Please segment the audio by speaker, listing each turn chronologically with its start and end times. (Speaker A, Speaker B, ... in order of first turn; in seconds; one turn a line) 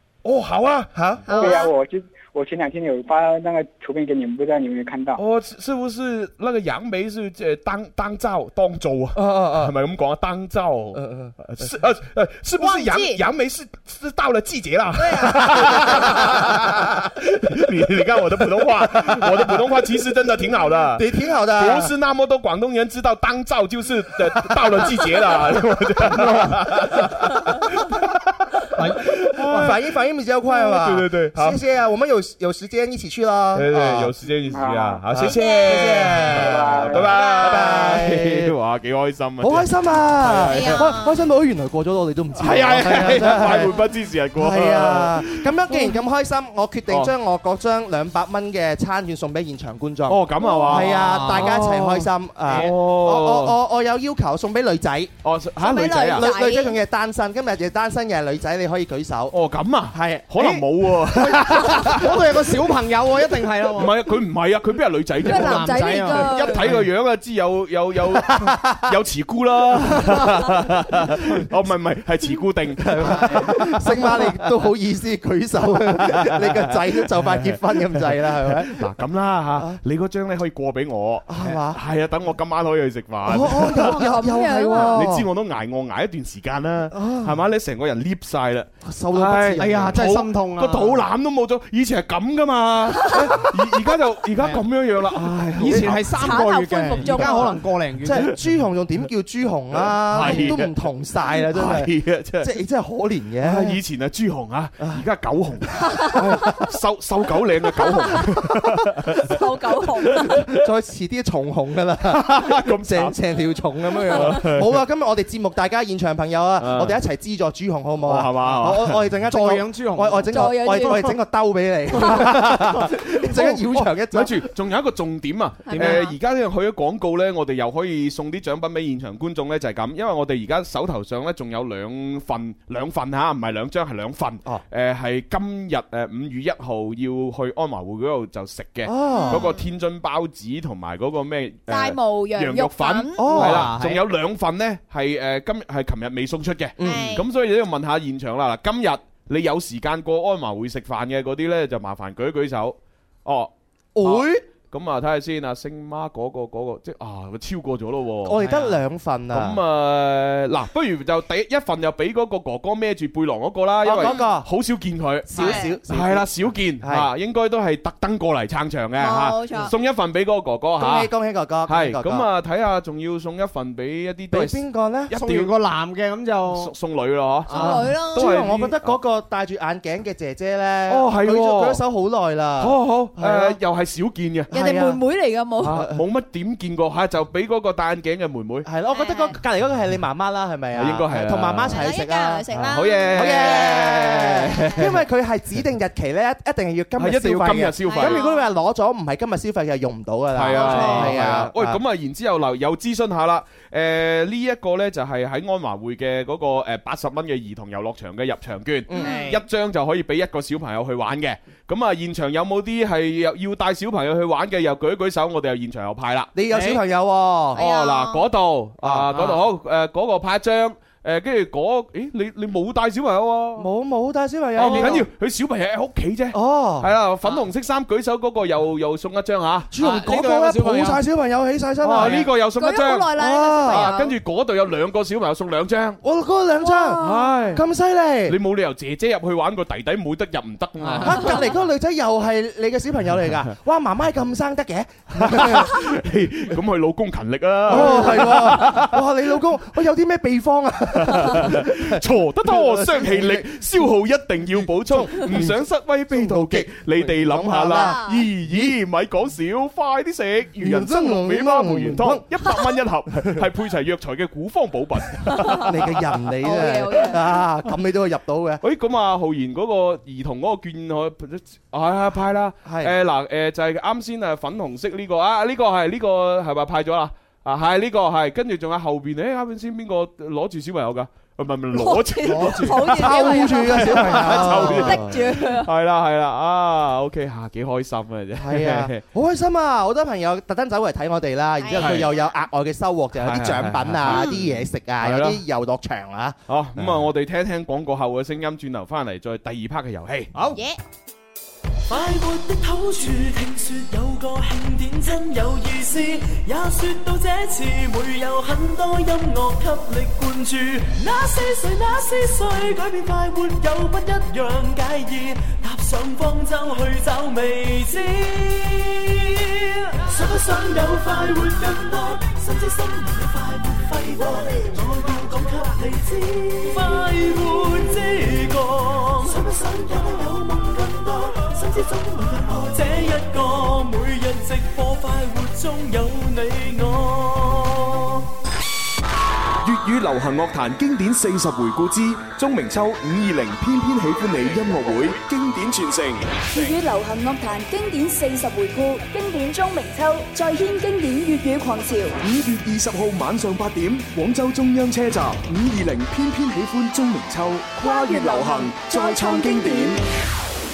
Speaker A: 0.2-1.6
Speaker B: 0.9-1.3
Speaker C: 1.3-1.7
Speaker D: 1.3-5.2
Speaker A: 5.2-29.8
Speaker B: 9.2-9.7
Speaker B: 10.9-11.7
Speaker C: 12.6-13.1
Speaker B: 15.2-16.0
Speaker B: 20.9-21.9
Speaker B: 26.1-26.5
Speaker B: 29.4-34.1
Speaker A: 30.5-31.6
Speaker A: 33.5-41.0
Speaker D: 34.5-35.0
Speaker B: 35.1-38.5
Speaker D: 36.3-37.1
Speaker C: 37.1-37.5
Speaker B: 39.4-43.8
Speaker C: 40.5-41.1
Speaker A: 42.3-45.9
Speaker B: 44.4-55.1
Speaker A: 46.9-47.1
Speaker A: 50.1-53.6
Speaker C: 50.4-50.9
Speaker E: 51.0-51.5
Speaker A: 55.2-56.3
Speaker C: 55.6-56.8
Speaker B: 56.1-59.4
Speaker A: 59.3-62.4
Speaker B: 59.9-60.6
Speaker E: 61.2-64.0
Speaker A: 63.7-74.3
Speaker E: 65.2-66.8
Speaker C: 65.2-66.7
Speaker B: 68.5-68.8
Speaker B: 72.8-78.8
Speaker A: 75.8-96.1
Speaker B: 81.3-81.8
Speaker B: 83.2-85.3
Speaker C: 83.7-85.0
Speaker B: 86.9-87.4
Speaker B: 88.8-90.0
Speaker E: 89.6-91.0
Speaker E: 95.5-98.3
Speaker C: 96.1-97.6
Speaker B: 98.0-103.8
Speaker A: 98.1-98.4
Speaker A: 99.7-102.5
Speaker C: 100.2-100.5
Speaker A: 103.4-110.5
Speaker B: 106.0-106.6
Speaker C: 107.8-108.2
Speaker C: 109.2-110.4
Speaker B: 110.2-124.4
Speaker A: 112.0-113.2
Speaker A: 114.0-114.8
Speaker A: 116.6-117.0
Speaker A: 118.0-119.0
Speaker E: 119.2-120.3
Speaker C: 120.3-121.2
Speaker A: 121.9-158.5
Speaker C: 125.7-126.1
Speaker E: 125.7-126.1
Speaker B: 138.8-139.5
Speaker C: 139.1-139.5
Speaker C: 141.7-143.2
Speaker B: 143.2-143.7
Speaker E: 143.3-144.0
Speaker B: 146.8-147.1
Speaker C: 146.8-147.2
Speaker B: 153.9-154.4
Speaker B: 158.2-159.6
Speaker A: 159.3-171.1
Speaker B: 163.8-164.5
Speaker B: 165.2-167.1
Speaker C: 165.4-165.7
Speaker C: 169.0-169.7
Speaker B: 170.8-172.3
Speaker A: 171.7-175.5
Speaker B: 174.3-175.1
Speaker E: 175.1-176.7
Speaker A: 176.5-179.0
Speaker C: 177.5-178.3
Speaker B: 177.5-183.6
Speaker A: 180.9-181.8
Speaker A: 182.6-184.5
Speaker B: 184.5-185.0
Speaker C: 184.5-185.8
Speaker A: 185.6-188.7
Speaker B: 185.6-186.0
Speaker B: 188.6-192.5
Speaker C: 188.9-189.3
Speaker A: 190.7-191.8
Speaker C: 191.7-194.6
Speaker A: 192.5-195.0
Speaker B: 193.0-201.8
Speaker A: 197.0-198.3
Speaker C: 197.9-198.4
Speaker A: 200.3-216.7
Speaker C: 200.5-201.2
Speaker B: 208.9-209.2
Speaker C: 209.0-209.4
Speaker B: 216.3-217.6
Speaker A: 217.5-223.7
Speaker C: 217.5-218.2
Speaker B: 218.8-219.3
Speaker B: 223.6-225.0
Speaker A: 224.5-229.7
Speaker E: 224.6-225.0
Speaker B: 226.3-226.9
Speaker B: 229.7-232.2
Speaker E: 229.8-231.0
Speaker A: 231.8-236.0
Speaker C: 232.5-234.2
Speaker B: 233.2-233.9
Speaker B: 236.0-238.3
Speaker C: 236.6-237.5
Speaker A: 237.0-237.7
Speaker A: 238.2-241.5
Speaker E: 240.8-241.1
Speaker B: 241.0-245.9
Speaker A: 245.1-249.1
Speaker B: 247.7-253.5
Speaker A: 250.9-266.0
Speaker B: 254.6-258.7
Speaker C: 257.7-258.2
Speaker B: 260.6-262.3
Speaker C: 265.3-265.6
Speaker B: 265.5-268.6
Speaker C: 266.4-267.2
Speaker A: 268.6-289.0
Speaker B: 272.6-272.9
Speaker C: 281.7-285.7
Speaker E: 282.3-282.9
Speaker B: 282.4-285.2
Speaker B: 288.4-296.9
Speaker C: 291.6-292.2
Speaker A: 291.7-292.1
Speaker A: 293.1-294.4
Speaker C: 294.1-294.3
Speaker A: 295.0-295.4
Speaker A: 296.5-300.3
Speaker E: 300.3-300.6
Speaker F: 301.9-338.3
Speaker G: 339.6-346.6
Speaker H: 346.5-352.2
Speaker G: 352.2-360.0
Speaker H: 357.8-360.0